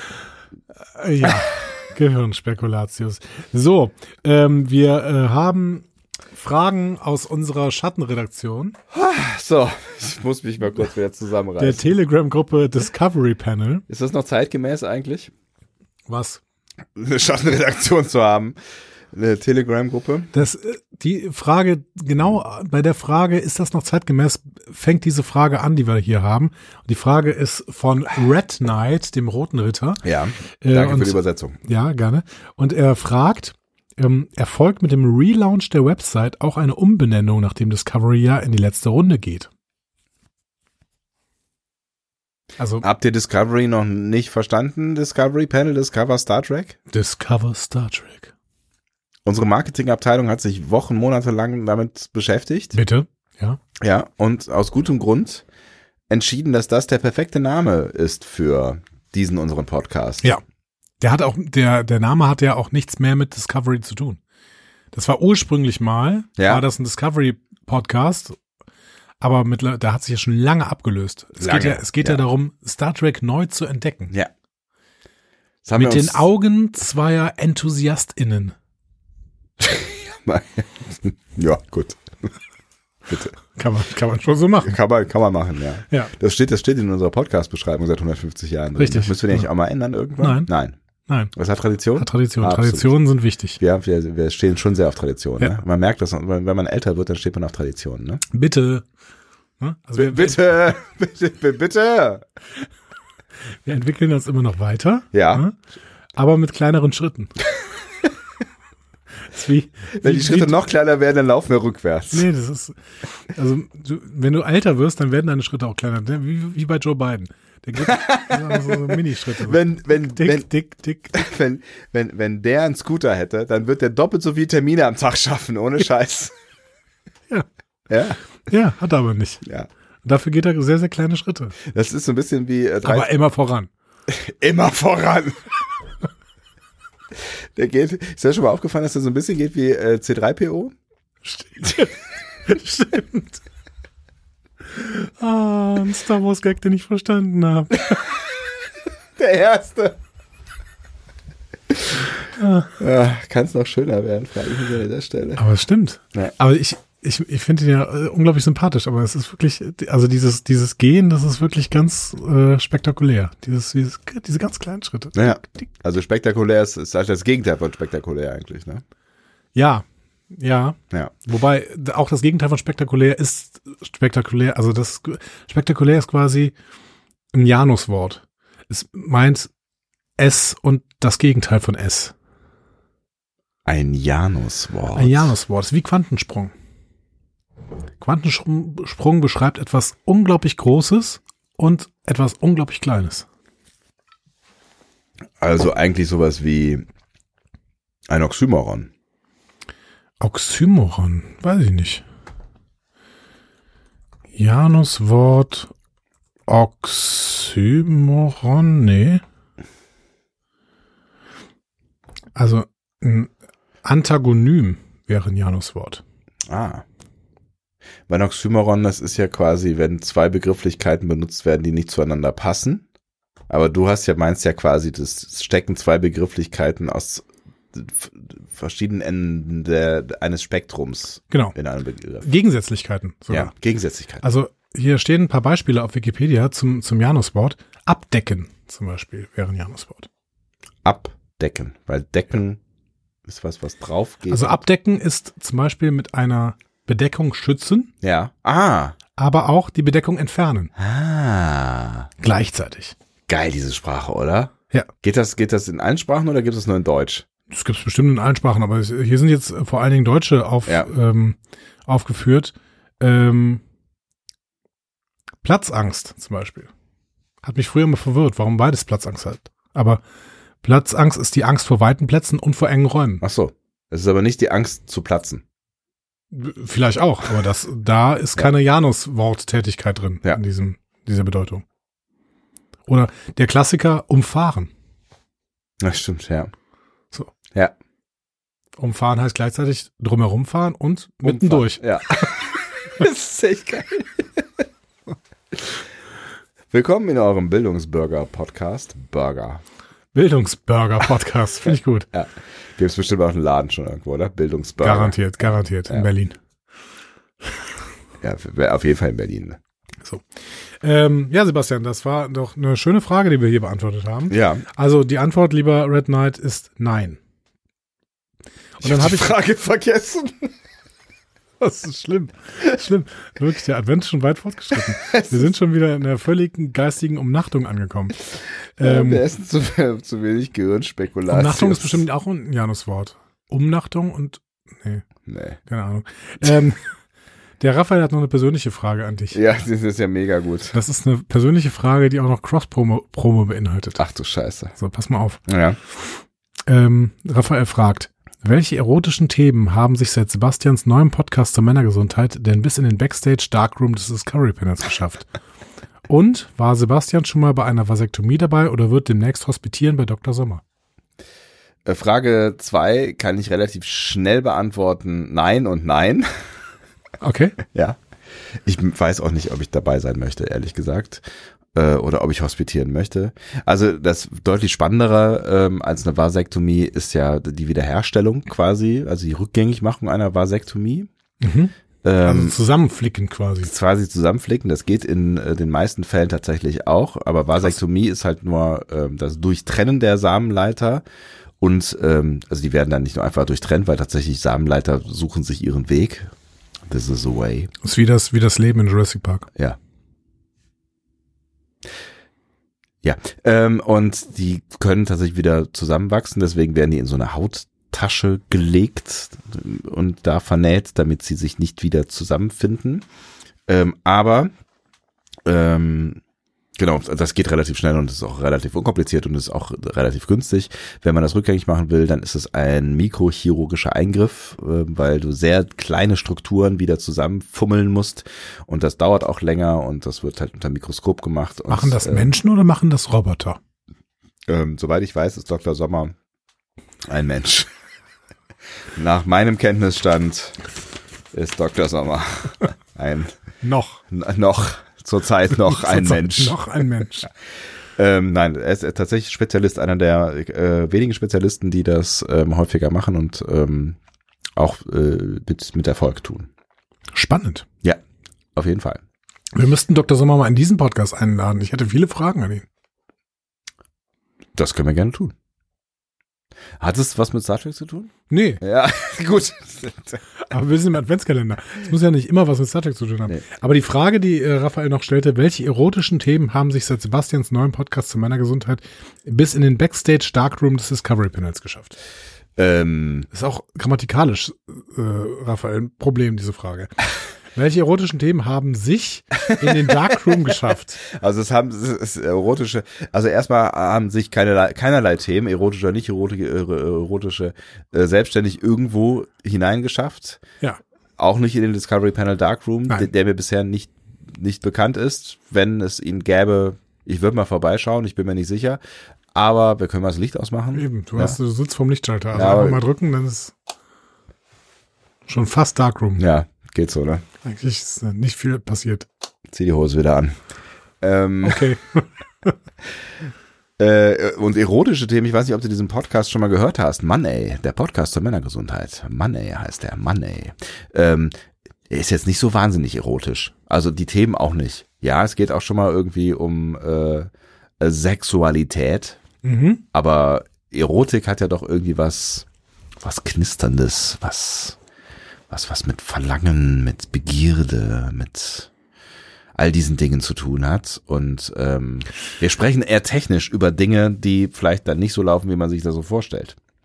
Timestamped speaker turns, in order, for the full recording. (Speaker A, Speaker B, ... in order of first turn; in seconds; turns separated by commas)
Speaker A: 1.0-8.8, Speaker B: 8.9-11.9, Speaker A: 11.6-13.8, Speaker B: 13.9-15.3, Speaker A: 16.1-16.4, Speaker B: 17.0-18.6, Speaker B: 19.1-20.3, Speaker A: 20.3-39.5, Speaker B: 30.0-31.6, Speaker A: 42.6-42.9, Speaker B: 42.8-46.8, Speaker A: 46.9-48.3, Speaker B: 49.2-52.8, Speaker A: 52.7-53.6, Speaker B: 53.8-55.5, Speaker B: 56.1-60.3, Speaker A: 61.0-64.2, Speaker A: 64.9-68.4, Speaker B: 66.4-66.7, Speaker A: 69.2-74.1, Speaker B: 71.4-72.2, Speaker B: 75.6-76.3, Speaker A: 75.8-78.5, Speaker B: 79.6-82.0, Speaker B: 83.1-83.4, Speaker A: 83.5-84.8, Speaker B: 84.6-90.8, Speaker A: 88.8-89.5, Speaker A: 90.2-90.5, Speaker A: 91.1-91.3, Speaker B: 91.3-93.0, Speaker A: 91.9-93.6, Speaker B: 93.6-98.2, Speaker A: 98.3-98.8, Speaker A: 99.6-100.4, Speaker B: 100.0-102.2, Speaker A: 103.6-105.5, Speaker B: 105.1-105.4, Speaker A: 106.2-107.3, Speaker A: 109.3-110.6, Speaker B: 109.9-112.3, Speaker A: 112.1-121.2, Speaker B: 117.8-120.5, Speaker B: 121.1-126.3, Speaker B: 127.9-128.2, Speaker A: 128.4-129.4, Speaker A: 130.1-131.6, Speaker B: 131.7-133.1, Speaker A: 132.8-133.7, Speaker B: 134.1-135.5, Speaker B: 137.6-140.7, Speaker A: 141.2-143.4, Speaker A: 144.7-148.1, Speaker B: 149.2-149.9, Speaker A: 152.4-152.7, Speaker B: 152.8-155.4, Speaker A: 155.4-165.7, Speaker B: 165.2-168.8, Speaker A: 169.6-176.6, Speaker A: 177.3-179.5, Speaker A: 180.2-182.1, Speaker B: 183.7-185.4, Speaker A: 184.9-186.5, Speaker A: 188.0-193.3, Speaker B: 195.4-196.8, Speaker B: 198.1-198.9, Speaker A: 200.2-202.0, Speaker A: 204.3-205.7, Speaker A: 206.5-209.2, Speaker A: 212.3-213.3, Speaker A: 213.8-216.0, Speaker B: 216.5-216.8, Speaker B: 218.1-222.8, Speaker B: 223.5-232.3, Speaker A: 231.3-231.6, Speaker A: 232.2-233.5, Speaker B: 233.3-234.2, Speaker A: 234.2-240.1, Speaker B: 240.8-242.6, Speaker B: 243.3-244.6, Speaker A: 244.3-247.9, Speaker B: 248.0-249.0, Speaker A: 249.2-250.7, Speaker B: 250.8-252.1, Speaker A: 252.2-253.0, Speaker B: 253.3-254.5, Speaker B: 255.0-257.3, Speaker A: 257.5-263.6, Speaker A: 265.4-266.7, Speaker A: 267.4-270.0, Speaker A: 270.6-273.2, Speaker B: 273.2-275.4, Speaker A: 276.3-281.6, Speaker A: 282.9-284.7, Speaker B: 285.8-286.5, Speaker A: 288.8-292.3, Speaker B: 291.2-294.4, Speaker B: 296.7-299.6, Speaker A: 300.1-302.1, Speaker B: 301.7-305.3, Speaker A: 304.8-306.4, Speaker B: 308.2-309.6, Speaker A: 310.8-317.2, Speaker B: 314.3-314.7, Speaker A: 318.8-319.4, Speaker B: 318.8-320.5, Speaker A: 321.6-329.3, Speaker B: 325.0-325.5, Speaker B: 328.8-332.0, Speaker A: 331.3-335.1, Speaker B: 335.3-335.6, Speaker A: 335.6-336.9, Speaker A: 337.6-339.4, Speaker B: 339.3-340.8, Speaker A: 340.7-344.1, Speaker B: 344.0-344.8, Speaker A: 344.7-345.5, Speaker B: 345.5-345.8, Speaker A: 346.7-355.3, Speaker A: 356.1-360.6, Speaker B: 361.9-366.3, Speaker A: 367.2-367.6, Speaker B: 368.7-371.2, Speaker B: 371.8-381.1, Speaker A: 381.4-383.7, Speaker B: 382.0-382.6, Speaker B: 383.6-391.0, Speaker B: 391.6-396.3, Speaker B: 396.9-397.7, Speaker A: 397.8-399.5, Speaker B: 403.0-413.1, Speaker B: 413.7-414.5, Speaker B: 415.4-416.2, Speaker B: 416.8-432.3, Speaker A: 431.7-433.6, Speaker B: 434.5-436.1, Speaker B: 437.1-437.7, Speaker B: 439.0-440.6, Speaker B: 441.3-443.3, Speaker A: 443.6-444.0, Speaker B: 444.1-446.6, Speaker A: 445.6-447.3, Speaker B: 448.0-454.0, Speaker B: 454.6-456.5, Speaker A: 457.1-457.7, Speaker B: 458.6-459.0, Speaker A: 459.5-462.6, Speaker B: 464.6-465.3, Speaker B: 466.8-470.2, Speaker A: 468.3-468.6, Speaker A: 470.5-481.9, Speaker B: 482.6-483.3, Speaker A: 483.3-487.0, Speaker A: 487.5-491.0, Speaker B: 491.0-500.4, Speaker B: 501.2-508.8, Speaker B: 509.3-511.4, Speaker A: 510.7-513.5, Speaker B: 512.3-512.8, Speaker A: 515.3-516.2, Speaker B: 516.2-517.2, Speaker A: 517.4-519.1, Speaker B: 519.5-520.4, Speaker B: 521.0-521.7, Speaker A: 521.4-522.5, Speaker B: 523.8-531.3, Speaker B: 531.9-537.3, Speaker B: 537.8-539.2, Speaker A: 539.4-539.8, Speaker B: 539.9-542.5, Speaker B: 543.0-544.8, Speaker B: 545.5-548.7, Speaker B: 549.6-556.6